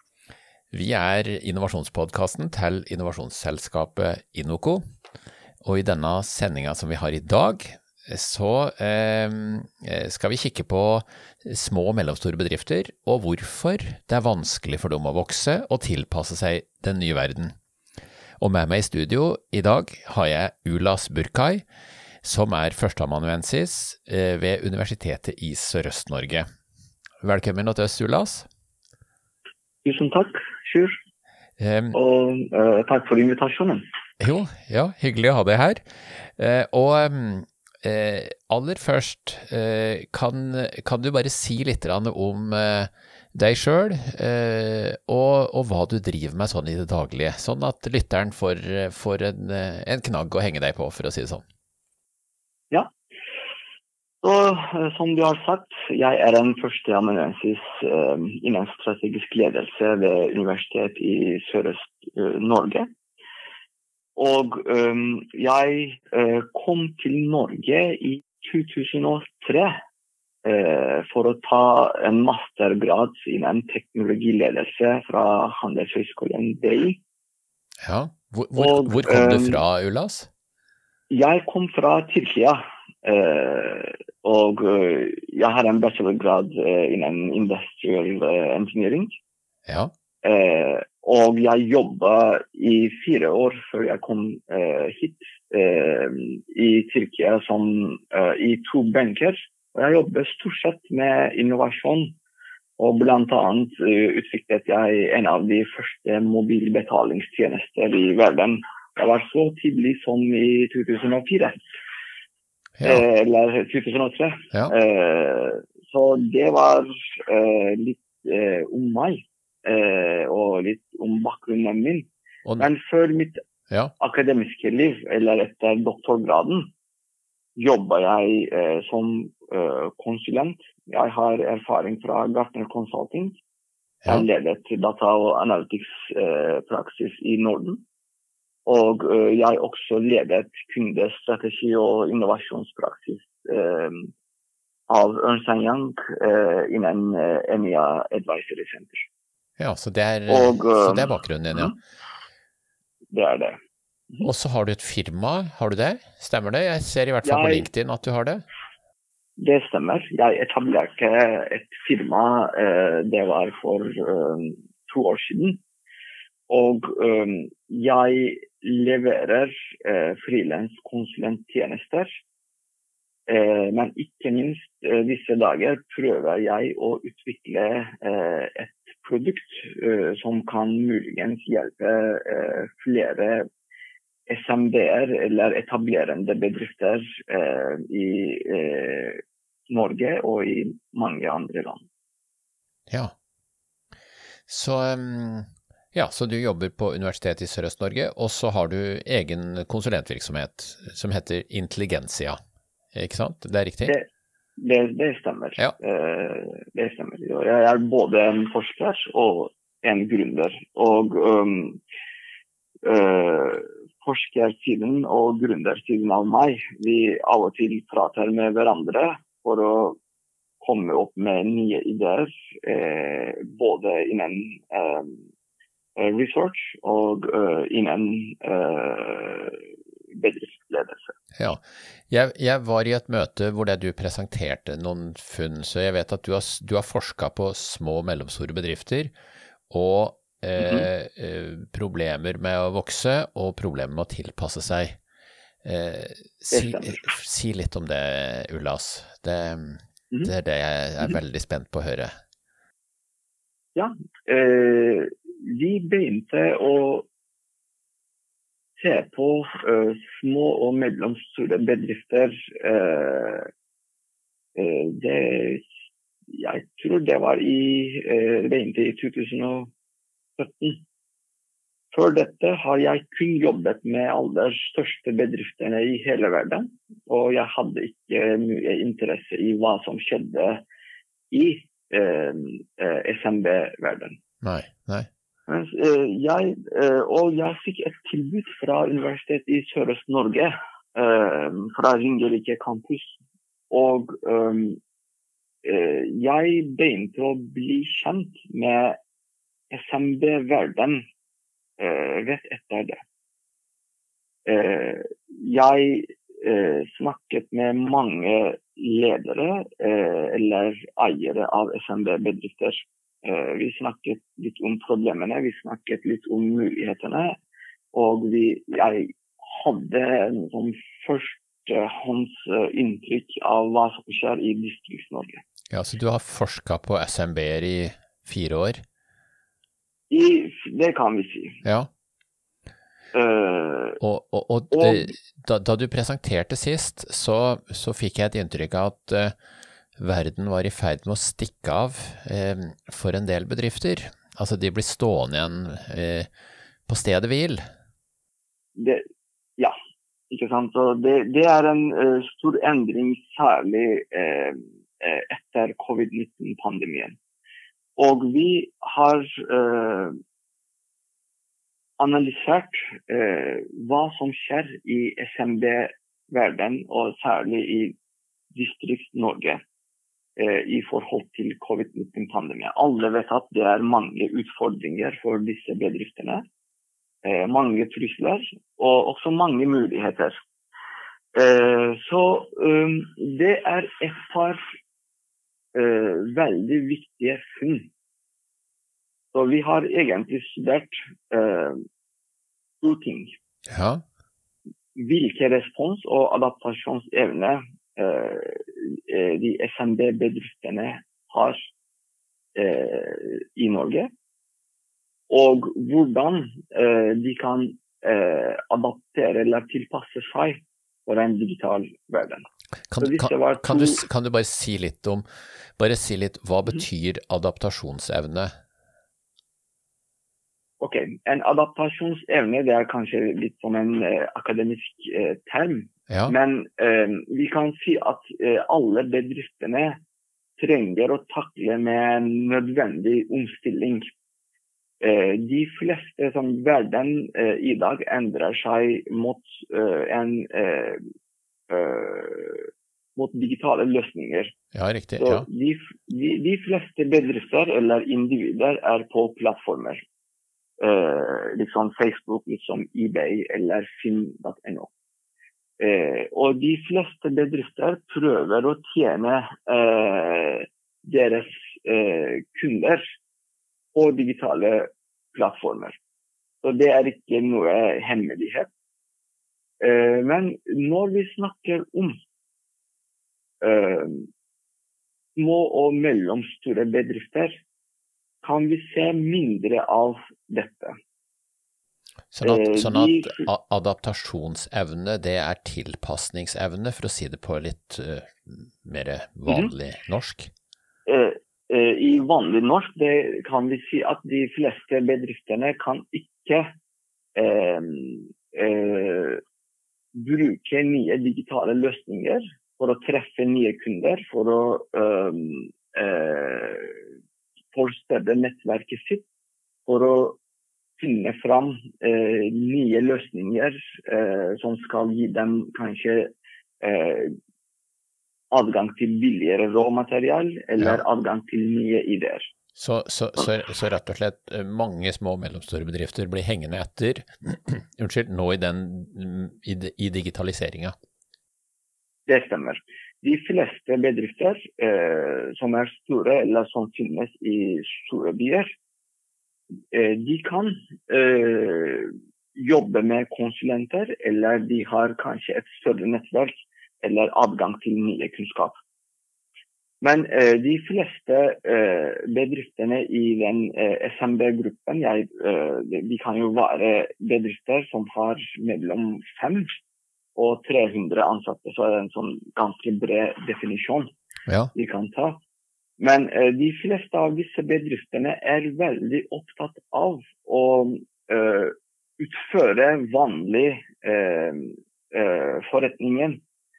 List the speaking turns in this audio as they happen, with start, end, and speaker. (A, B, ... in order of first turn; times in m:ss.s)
0:00.7-0:04.8 A
0:05.6-0:17.5 A
0:18.4-0:21.6 A
0:22.2-0:26.4 A
0:27.2-0:28.5 A
0:29.8-0:31.0 B
0:31.6-0:32.0 A
0:31.9-0:33.8 B
0:34.2-0:51.4 A
0:54.2-1:02.9 B
1:04.2-1:09.8 B
1:10.4-1:17.0 B
1:17.8-1:20.3 A
1:18.6-1:19.6 B
1:21.1-1:29.2 B
1:29.6-1:29.9 A
1:30.2-1:42.2 B
1:42.8-1:51.6 B
1:52.8-1:53.0 A
1:52.8-2:03.4 B
2:04.0-2:06.7 B
2:07.6-2:13.4 B
2:14.0-2:17.8 B
2:18.6-2:24.1 B
2:24.9-2:29.1 B
2:29.6-2:31.7 A
2:30.3-2:31.7 B
2:33.1-2:33.6 B
2:34.2-2:38.4 A
2:37.2-2:37.7 B
2:39.4-2:45.6 B
2:46.5-2:52.2 B
2:53.3-3:03.5 B
3:04.3-3:11.8 B
3:14.5-3:22.4 A
3:22.9-3:23.9 A
3:24.6-3:31.8 B
3:32.8-3:40.0 B
3:40.6-3:45.2 B
3:46.0-3:51.1 B
3:51.4-3:59.1 A
3:59.7-4:05.0 A
4:00.6-4:00.9 B
4:05.6-4:12.1 A
4:06.5-4:07.1 B
4:13.8-4:17.1 B
4:18.8-4:23.5 B
4:24.6-4:25.7 B
4:26.3-4:29.7 B
4:30.4-4:30.8 B
4:31.9-4:40.6 B
4:41.3-4:44.2 B
4:44.4-4:45.1 A
4:45.5-4:53.2 B
4:53.7-4:54.8 B
4:55.6-4:59.0 B
4:59.7-5:01.0 B
5:01.8-5:03.0 B
5:04.4-5:17.4 B
5:17.9-5:25.4 B
5:25.7-5:28.8 A
5:30.1-5:31.6 B
5:31.6-5:31.9 A
5:33.1-5:34.0 B
5:34.0-5:39.4 A
5:34.7-5:35.1 B
5:40.0-5:46.3 A
5:46.9-5:47.6 A
5:48.8-5:49.0 B
5:50.3-5:57.2 B
5:58.0-6:00.2 B
6:02.0-6:08.0 B
6:08.5-6:09.6 B
6:10.4-6:16.4 B
6:17.2-6:20.4 B
6:21.3-6:24.6 B
6:25.7-6:27.9 B
6:29.3-6:31.8 B
6:32.8-6:33.3 B
6:33.7-6:34.0 A
6:35.0-6:41.7 B
6:42.6-6:44.1 B
6:45.3-6:52.4 B
6:52.9-6:55.2 A
6:53.0-6:54.0 B
6:55.8-6:58.5 A
7:00.8-7:10.0 B
7:06.1-7:06.3 A
7:10.6-7:14.1 B
7:15.0-7:21.0 B
7:21.7-7:24.5 B
7:24.7-7:25.4 A
7:25.2-7:30.0 B
7:30.8-7:34.9 B
7:35.8-7:43.2 B
7:43.9-7:46.0 B
7:46.6-7:48.7 B
7:49.8-7:52.2 B
7:53.6-7:54.3 B
7:55.4-7:57.6 B
7:58.4-8:00.9 B
8:02.3-8:10.5 A
8:02.4-8:03.5 B
8:09.5-8:09.7 B
8:11.1-8:16.7 B
8:17.4-8:19.4 B
8:20.1-8:27.0 B
8:27.7-8:29.2 B
8:29.8-8:30.4 B
8:31.0-8:36.3 B
8:36.8-8:37.3 B
8:38.5-8:42.5 B
8:42.8-8:50.9 A
8:52.3-8:58.7 B
8:59.9-9:08.8 B
9:10.0-9:19.7 B
9:20.4-9:24.1 B
9:24.5-9:24.7 A
9:24.7-9:25.4 B
9:26.0-9:36.4 B